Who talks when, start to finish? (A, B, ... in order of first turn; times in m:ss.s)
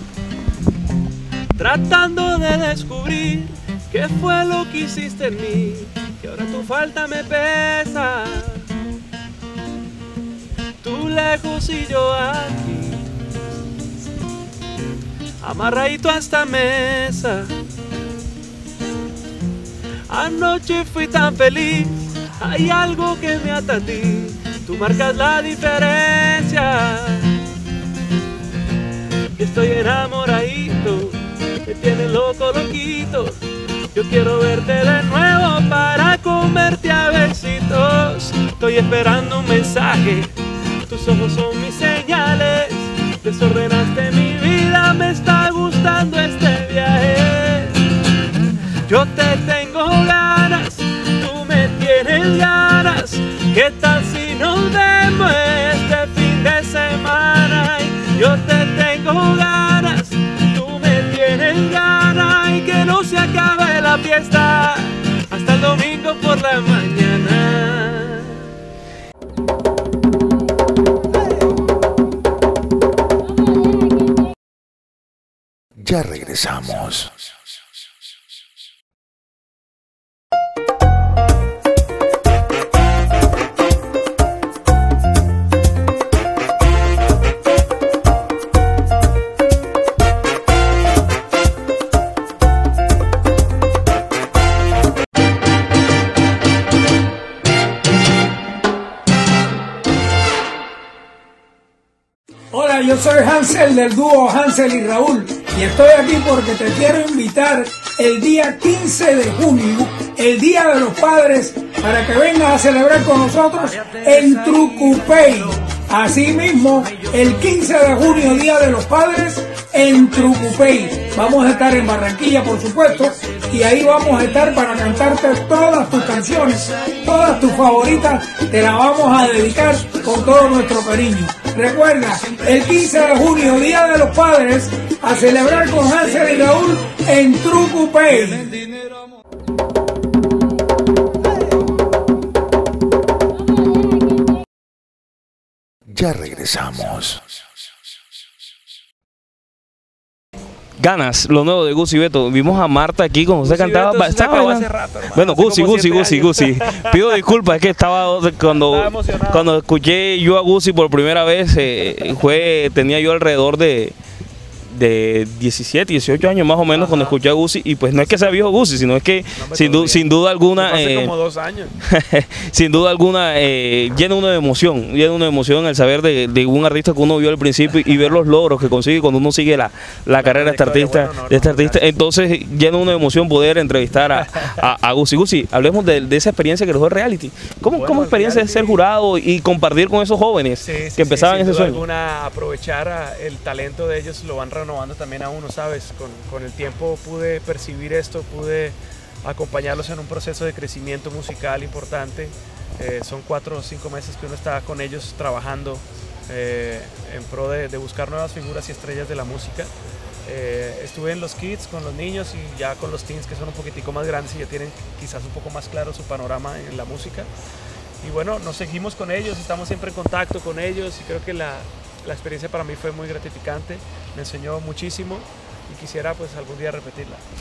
0:01.5-0:08.7 A
0:10.8-0:13.1 A
0:15.4-0:17.6 A
0:20.1-0:27.4 A
0:29.4-0:47.9 A
0:48.9-1:08.5 A
1:15.8-1:17.2 B
1:42.5-2:18.6 C
2:25.9-2:27.2 B
2:30.8-2:44.0 D
2:33.4-2:37.2 A
2:38.5-2:39.5 A
2:44.7-2:51.1 D
2:46.7-2:47.2 A
2:49.4-2:51.8 A
2:51.9-3:11.8 D
3:00.2-3:02.0 A
3:04.2-3:04.6 A
3:07.7-3:08.8 A
3:10.6-3:29.7 A
3:30.3-3:37.3 A
3:38.0-3:47.2 A